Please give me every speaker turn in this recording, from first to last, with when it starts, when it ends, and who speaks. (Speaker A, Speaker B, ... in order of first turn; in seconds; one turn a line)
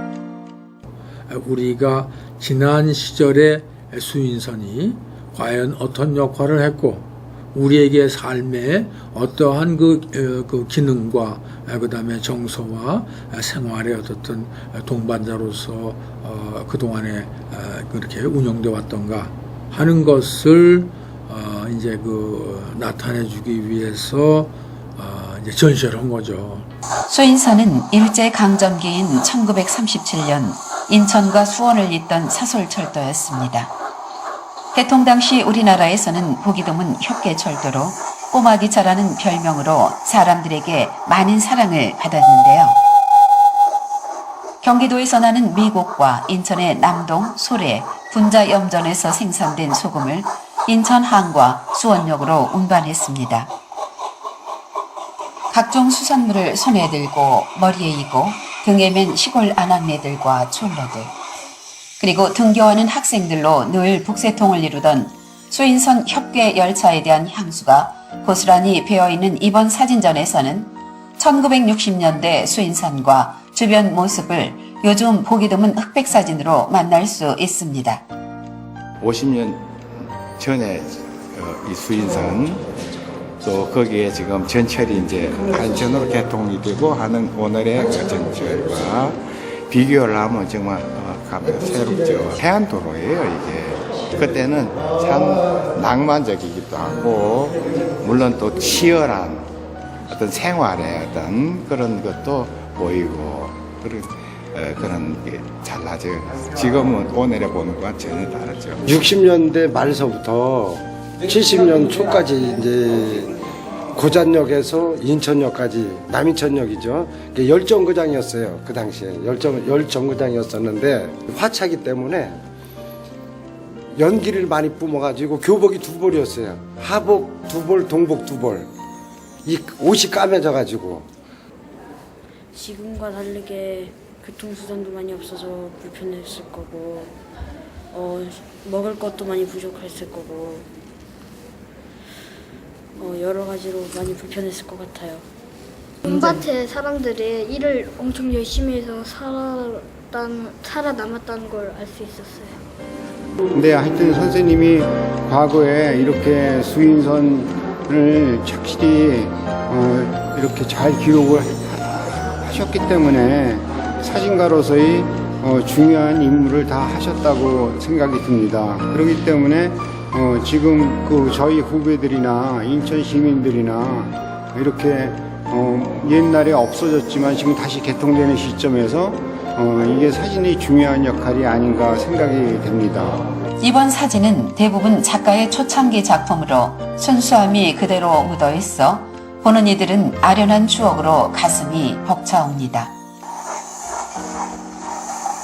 Speaker A: 1.3-26.6
Speaker B: 27.1-33.7
Speaker B: 34.7-42.8
Speaker B: 44.6-53.5
Speaker B: 55.5-61.1
Speaker B: 62.0-78.0
Speaker C: 79.0-79.7
Speaker C: 80.4-82.7
Speaker C: 83.4-99.5
Speaker C: 100.1-108.8
Speaker D: 108.9-113.4
Speaker D: 113.9-122.4
Speaker D: 123.9-128.7
Speaker D: 129.4-131.1
Speaker E: 132.5-137.1
Speaker E: 137.9-140.7
Speaker E: 143.0-145.2
Speaker F: 146.0-152.6
Speaker G: 153.5-183.2
Speaker B: 183.6-192.9